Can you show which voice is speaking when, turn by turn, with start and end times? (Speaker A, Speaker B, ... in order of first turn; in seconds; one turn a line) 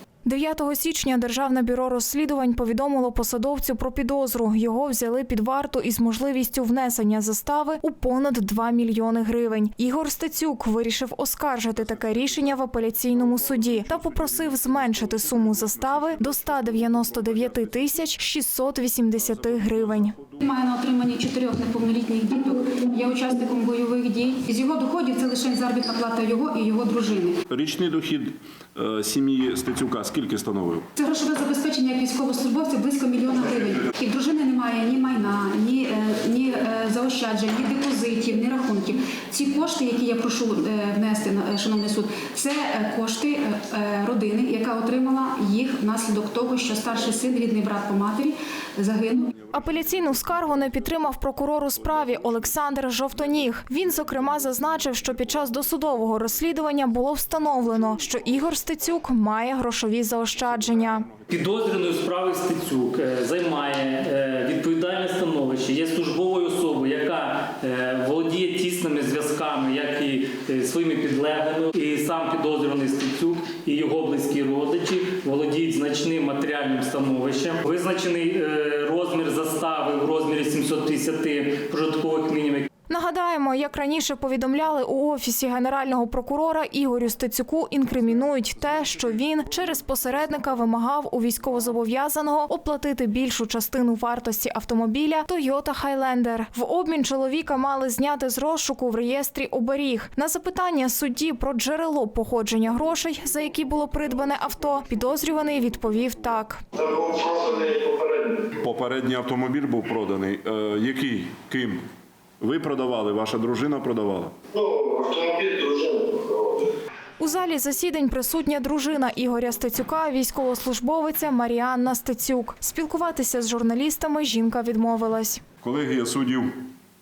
Speaker A: 0.2-20.1
Speaker B: 12.1-12.5
Speaker B: 13.6-17.7
Speaker B: 19.4-20.3
Speaker C: 20.4-27.4
Speaker B: 27.5-30.9
Speaker C: 31.0-49.4
Speaker A: 49.5-61.1
Speaker D: 61.3-82.7
Speaker A: 82.9-106.7
Speaker E: 106.8-108.5
Speaker B: 108.6-111.8
Speaker B: 112.4-114.3
Speaker E: 114.5-116.7
Speaker A: 117.2-125.4
Speaker B: 125.6-126.7